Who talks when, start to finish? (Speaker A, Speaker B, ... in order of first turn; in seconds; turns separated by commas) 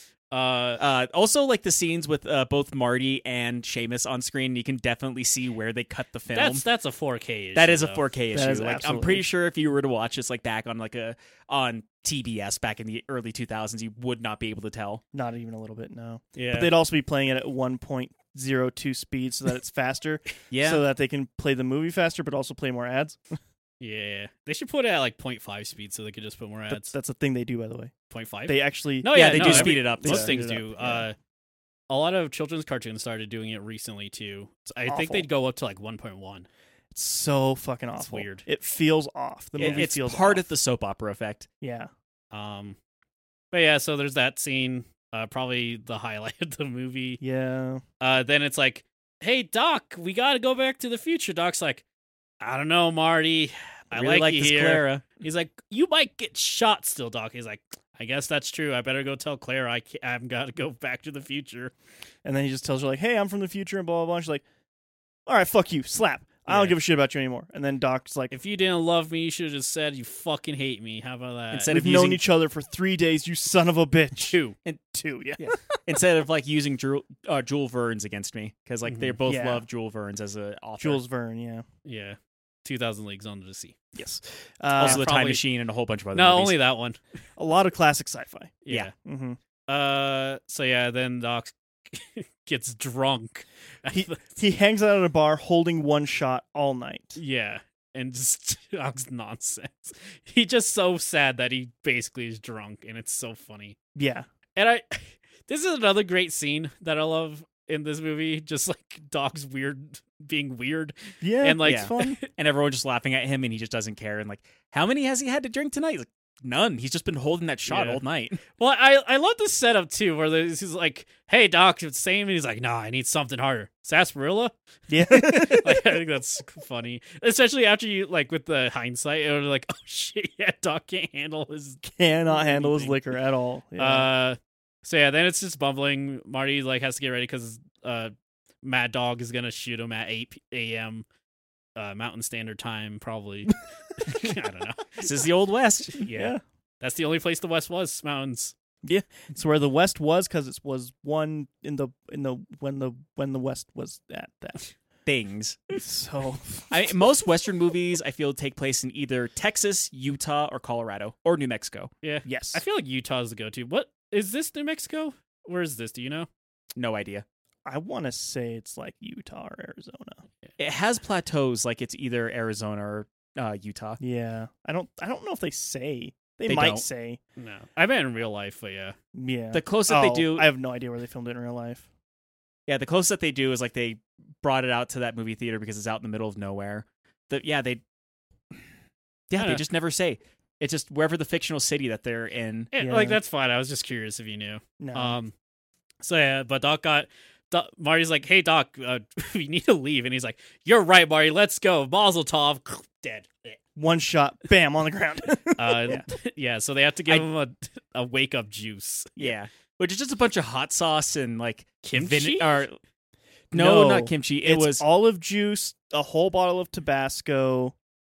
Speaker A: 0.3-0.8, Speaker B: 0.8-6.6, Speaker A: 6.3-8.1, Speaker B: 7.5-15.0, Speaker C: 8.3-9.3, Speaker C: 15.1-23.2, Speaker A: 16.3-16.7, Speaker B: 20.5-20.8, Speaker A: 23.8-26.9, Speaker C: 26.7-27.9, Speaker A: 28.1-31.1, Speaker C: 28.5-31.1, Speaker B: 29.1-30.4, Speaker A: 31.9-36.5, Speaker C: 34.9-35.3, Speaker C: 36.9-40.5, Speaker A: 38.0-38.5, Speaker B: 39.6-41.5, Speaker A: 39.6-39.9, Speaker C: 41.6-41.9, Speaker A: 42.3-42.8, Speaker A: 43.5-47.2, Speaker C: 47.2-47.8, Speaker A: 48.0-51.8, Speaker A: 52.4-61.7, Speaker B: 53.9-55.0, Speaker C: 62.2-64.4, Speaker C: 65.3-68.3, Speaker A: 66.5-66.8, Speaker A: 68.3-71.7, Speaker B: 71.5-72.2, Speaker C: 71.7-74.4, Speaker A: 74.3-74.5, Speaker C: 74.9-75.8, Speaker B: 75.4-81.0, Speaker A: 78.9-79.2, Speaker C: 79.3-79.6, Speaker C: 80.8-81.6, Speaker A: 81.8-83.8, Speaker C: 83.9-85.0, Speaker A: 84.8-85.4, Speaker B: 84.8-86.5, Speaker A: 86.1-87.0, Speaker C: 87.4-89.4, Speaker A: 88.6-88.9, Speaker A: 89.7-94.2, Speaker C: 93.9-97.2, Speaker A: 97.2-103.8, Speaker C: 103.9-104.3, Speaker A: 104.5-112.2, Speaker C: 111.2-112.2, Speaker B: 111.6-118.4, Speaker A: 117.7-118.0, Speaker A: 118.5-124.5, Speaker C: 124.9-125.9, Speaker A: 125.0-133.0, Speaker C: 131.8-134.1, Speaker A: 133.8-141.1, Speaker A: 141.8-145.0, Speaker B: 145.0-146.1, Speaker A: 145.9-148.6, Speaker C: 146.1-146.4, Speaker C: 148.8-154.7, Speaker B: 155.1-155.6, Speaker C: 155.7-156.9, Speaker B: 156.7-161.9, Speaker A: 162.0-166.3, Speaker C: 162.2-162.6, Speaker B: 166.8-167.2, Speaker C: 167.6-170.2, Speaker B: 170.6-174.0, Speaker C: 174.0-177.2, Speaker B: 176.4-176.8, Speaker A: 177.4-178.9, Speaker C: 179.1-181.9, Speaker B: 179.5-180.5, Speaker B: 182.7-187.8, Speaker B: 189.3-192.7, Speaker A: 189.4-189.6, Speaker A: 192.7-195.3, Speaker C: 192.8-193.2, Speaker C: 194.8-195.2, Speaker A: 196.0-203.6, Speaker C: 203.8-206.1, Speaker A: 205.6-209.3, Speaker B: 209.2-212.7, Speaker A: 211.8-212.7, Speaker B: 213.5-214.8, Speaker C: 213.5-217.7